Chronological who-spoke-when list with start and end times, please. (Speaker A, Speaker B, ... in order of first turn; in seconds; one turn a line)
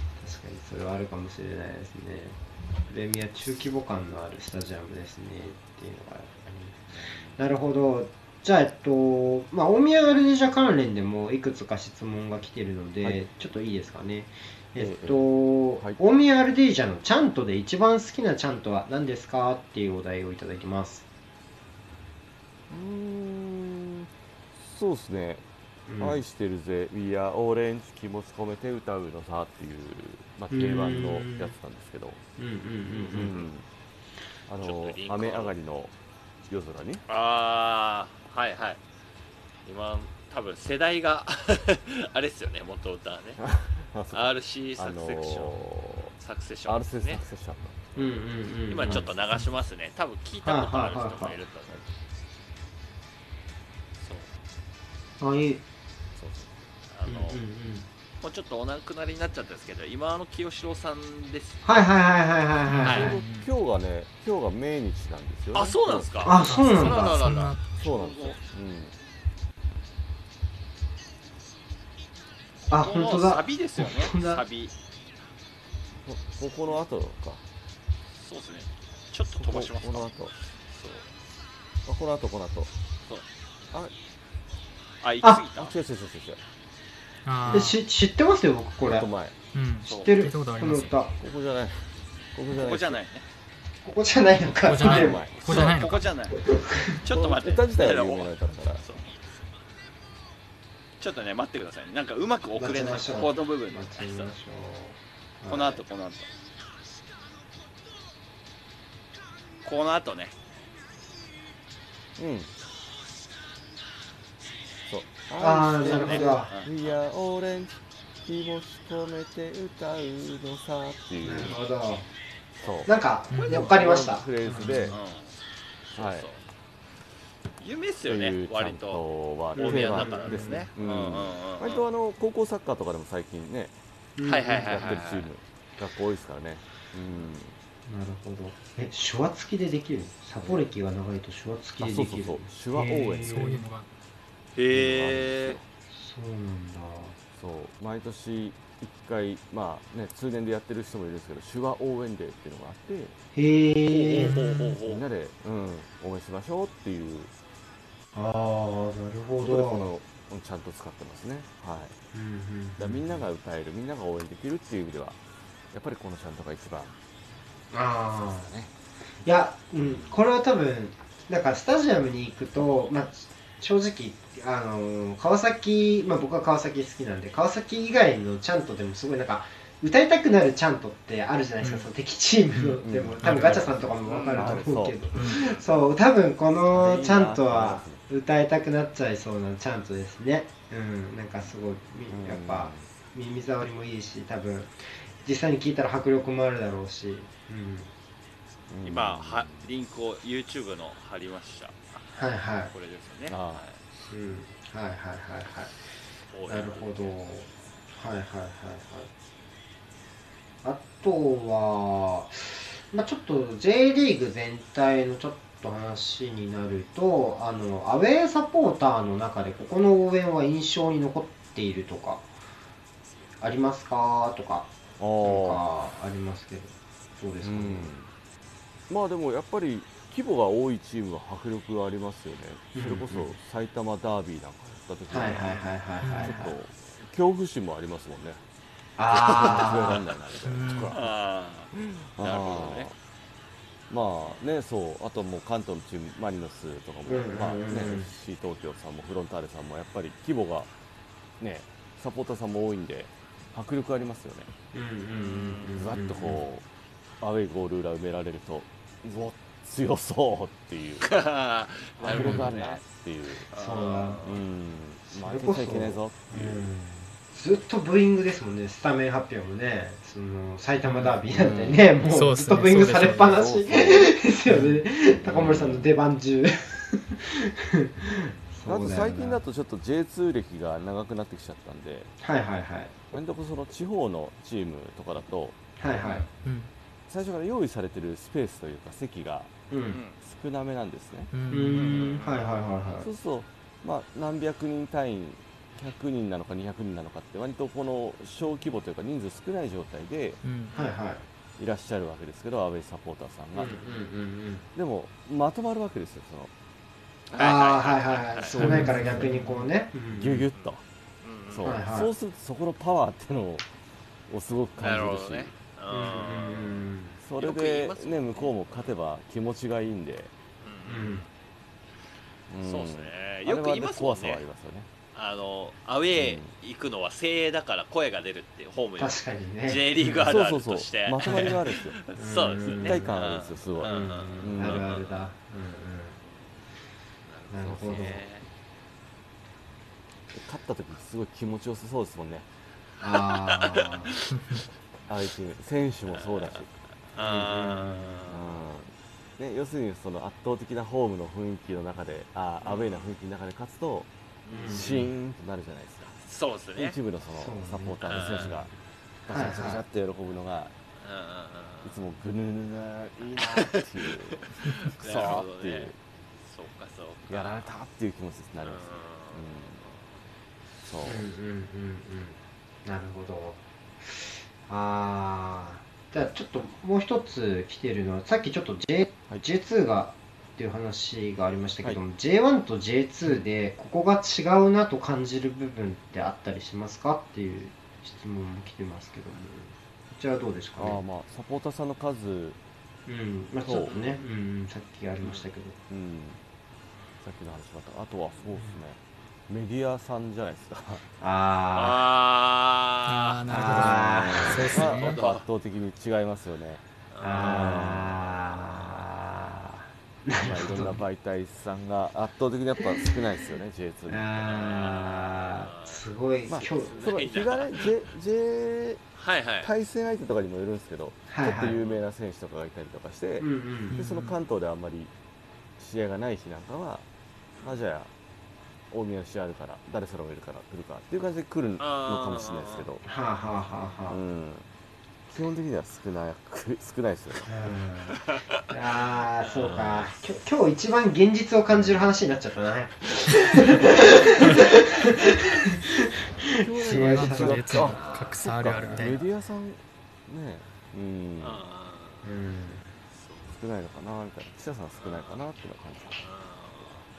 Speaker A: 0.2-21.0
Speaker B: 6.9-7.4
Speaker B: 14.8-15.2
Speaker B: 22.7-25.4
Speaker A: 25.9-26.2
Speaker B: 26.0-32.2
Speaker A: 30.5-31.5
Speaker A: 32.4-33.4
Speaker C: 33.0-33.5
Speaker B: 33.1-33.6
Speaker B: 34.5-35.9
Speaker C: 34.6-35.5
Speaker B: 36.5-37.0
Speaker C: 37.1-38.8
Speaker C: 39.6-43.4
Speaker B: 43.4-46.1
Speaker C: 44.1-45.6
Speaker C: 46.2-47.2
Speaker B: 46.7-47.9
Speaker A: 47.9-49.1
Speaker C: 48.7-51.8
Speaker B: 48.8-49.1
Speaker A: 50.4-51.4
Speaker C: 54.0-54.3
Speaker A: 55.2-55.6
Speaker B: 56.1-56.5
Speaker C: 56.9-57.4
Speaker A: 57.0-57.9
Speaker C: 58.2-61.8
Speaker A: 61.6-63.2
Speaker D: 62.7-63.5
Speaker C: 62.8-63.1
Speaker B: 62.9-66.1
Speaker C: 65.5-68.4
Speaker A: 66.2-67.2
Speaker D: 66.5-67.6
Speaker B: 67.8-68.9
Speaker A: 72.7-74.4
Speaker C: 72.7-74.7
Speaker B: 76.0-77.4
Speaker C: 78.2-80.1
Speaker B: 79.3-80.3
Speaker C: 80.7-81.0
Speaker B: 81.8-82.7
Speaker C: 85.0-85.7
Speaker B: 85.5-86.4
Speaker D: 87.2-87.8
Speaker A: 87.5-89.1
Speaker B: 88.8-89.3
Speaker D: 89.5-90.9
Speaker A: 89.8-91.1
Speaker C: 89.8-90.1
Speaker B: 91.2-93.0
Speaker C: 92.6-93.2
Speaker A: 93.8-95.7
Speaker D: 94.6-96.0
Speaker B: 94.7-95.7
Speaker C: 95.3-96.4
Speaker A: 96.3-97.0
Speaker C: 97.0-99.2
Speaker B: 97.1-98.8
Speaker C: 101.0-104.3
Speaker A: 102.5-105.8
Speaker C: 105.5-106.3
Speaker C: 109.6-110.3
Speaker B: 112.2-112.5
Speaker B: 114.9-117.7
Speaker A: 115.4-116.5
Speaker C: 115.9-116.9
Speaker B: 118.2-121.6
Speaker A: 121.2-122.1
Speaker B: 122.6-122.9
Speaker A: 122.8-125.0
Speaker D: 123.3-123.7
Speaker C: 123.3-123.7
Speaker B: 123.4-125.0
Speaker D: 124.5-124.9
Speaker C: 124.9-125.3
Speaker C: 125.9-126.4
Speaker B: 126.0-126.3
Speaker C: 127.6-129.0
Speaker B: 128.1-133.7
Speaker C: 129.5-131.8
Speaker A: 129.6-130.7
Speaker A: 134.2-134.7
Speaker C: 134.2-135.3
Speaker B: 134.5-137.5
Speaker A: 137.9-143.7
Speaker B: 140.4-140.7
Speaker B: 141.8-143.6
Speaker D: 143.2-143.9
Speaker C: 144.5-145.6
Speaker B: 144.7-145.6
Speaker A: 145.9-147.2
Speaker B: 147.3-153.2
Speaker A: 153.3-154.4
Speaker C: 153.9-155.0
Speaker B: 154.8-157.3
Speaker A: 158.1-159.8
Speaker B: 159.4-161.9
Speaker A: 162.1-163.2
Speaker B: 162.8-165.2
Speaker B: 165.7-166.9
Speaker A: 167.7-168.5
Speaker B: 168.4-168.7
Speaker A: 169.2-197.9
Speaker B: 169.8-170.2
Speaker D: 181.6-181.9
Speaker D: 182.5-183.6
Speaker B: 182.8-183.7
Speaker C: 184.0-184.5
Speaker B: 184.3-185.1
Speaker D: 185.2-185.4
Speaker C: 185.2-185.7
Speaker B: 186.6-188.0
Speaker B: 192.1-192.9
Speaker B: 198.7-199.7
Speaker C: 198.8-201.8
Speaker A: 202.1-202.7
Speaker C: 202.7-203.8
Speaker B: 203.3-203.6
Speaker A: 204.0-205.8
Speaker C: 206.3-207.2
Speaker A: 206.5-209.1
Speaker A: 210.6-222.3
Speaker A: 223.4-224.7
Speaker B: 225.0-225.6
Speaker A: 225.2-227.9
Speaker B: 227.4-228.1
Speaker B: 228.9-235.7
Speaker A: 232.7-233.3
Speaker A: 235.1-236.5
Speaker D: 236.0-236.4
Speaker B: 236.2-238.4
Speaker A: 239.0-240.1
Speaker B: 239.1-241.1
Speaker D: 240.4-241.0
Speaker C: 240.9-242.9
Speaker B: 241.7-242.9
Speaker B: 243.9-250.7
Speaker A: 247.1-248.1
Speaker B: 251.4-254.5
Speaker A: 254.7-256.4
Speaker C: 255.2-256.0
Speaker B: 255.7-256.6
Speaker B: 257.2-261.1
Speaker C: 261.0-262.8
Speaker B: 262.0-263.5
Speaker A: 262.1-262.5
Speaker C: 263.5-264.4
Speaker A: 263.5-264.3
Speaker B: 264.2-266.7
Speaker A: 265.1-279.4
Speaker D: 270.8-271.1
Speaker B: 271.3-272.0
Speaker D: 272.1-273.4
Speaker B: 273.0-274.1
Speaker D: 274.5-274.8
Speaker B: 275.2-275.9
Speaker B: 278.6-282.1
Speaker A: 282.2-283.1
Speaker B: 283.1-285.6
Speaker A: 285.8-286.2
Speaker C: 286.0-286.3
Speaker D: 286.4-286.7
Speaker B: 287.1-289.5
Speaker A: 289.7-290.0
Speaker C: 289.9-290.2
Speaker B: 290.2-291.3
Speaker D: 291.3-291.9
Speaker A: 291.5-293.1
Speaker C: 291.7-292.9
Speaker B: 293.0-300.4
Speaker D: 300.4-300.7
Speaker A: 300.7-301.2
Speaker B: 301.6-303.7
Speaker A: 303.5-304.6
Speaker C: 303.6-304.0
Speaker B: 304.7-306.5
Speaker C: 307.3-308.6
Speaker A: 307.4-310.5
Speaker B: 308.4-309.3
Speaker D: 308.6-309.7
Speaker B: 310.1-310.8
Speaker C: 310.5-311.8
Speaker B: 311.5-313.6
Speaker A: 311.6-312.1
Speaker B: 314.3-315.5
Speaker C: 314.8-318.9
Speaker A: 315.9-317.2
Speaker B: 317.2-320.3
Speaker C: 320.6-321.3
Speaker A: 320.9-321.2
Speaker B: 322.5-324.9
Speaker C: 322.6-324.4
Speaker C: 325.1-335.3
Speaker B: 326.1-326.5
Speaker A: 329.0-330.3
Speaker B: 330.2-332.0
Speaker A: 332.1-333.1
Speaker B: 332.6-334.9
Speaker A: 333.8-336.2
Speaker C: 336.3-336.5
Speaker C: 337.3-338.5
Speaker A: 337.5-338.2
Speaker B: 337.6-338.1
Speaker B: 340.3-342.4
Speaker A: 343.0-344.1
Speaker C: 343.1-344.4
Speaker B: 345.1-346.7
Speaker C: 346.1-348.6
Speaker A: 347.2-348.2
Speaker B: 348.3-354.1
Speaker C: 352.6-353.1
Speaker C: 354.4-355.1
Speaker A: 354.5-355.0
Speaker B: 354.7-356.1
Speaker C: 356.2-357.0
Speaker B: 356.8-358.7
Speaker A: 357.3-358.6
Speaker C: 358.1-358.7
Speaker B: 359.2-360.7
Speaker A: 359.3-359.8
Speaker C: 361.0-361.9
Speaker B: 361.8-365.9
Speaker C: 363.4-365.9
Speaker C: 366.4-367.7
Speaker B: 367.3-369.8
Speaker C: 368.6-369.9
Speaker B: 370.8-371.2
Speaker A: 371.0-391.0
Speaker B: 390.8-392.6
Speaker A: 393.1-395.8
Speaker B: 393.6-394.0
Speaker C: 393.8-394.2
Speaker C: 395.2-395.5
Speaker B: 395.9-396.4
Speaker B: 397.2-401.0
Speaker A: 401.2-402.0
Speaker C: 401.7-403.5
Speaker D: 403.1-405.2
Speaker A: 403.5-404.9
Speaker B: 403.6-406.8
Speaker C: 404.4-405.4
Speaker C: 407.1-409.0
Speaker A: 407.2-411.0
Speaker B: 407.3-408.1
Speaker B: 410.4-414.2
Speaker A: 412.8-413.1
Speaker A: 414.1-417.1
Speaker C: 414.4-416.0
Speaker B: 416.4-419.0
Speaker C: 416.6-417.9
Speaker C: 419.1-419.7
Speaker B: 419.6-425.1
Speaker A: 421.3-421.8
Speaker C: 421.7-422.0
Speaker A: 423.4-424.3
Speaker B: 425.8-427.0
Speaker B: 427.6-428.1
Speaker B: 428.9-433.0
Speaker C: 431.8-432.9
Speaker A: 433.0-434.2
Speaker B: 434.1-434.6
Speaker B: 435.3-437.5
Speaker A: 437.4-449.1
Speaker C: 438.1-438.7
Speaker C: 439.4-440.2
Speaker B: 439.6-440.1
Speaker B: 446.6-448.0
Speaker D: 446.8-449.2
Speaker B: 448.6-451.6
Speaker C: 451.4-452.4
Speaker A: 452.2-452.9
Speaker C: 453.1-453.5
Speaker B: 453.5-456.2
Speaker C: 455.0-455.4
Speaker C: 456.2-457.1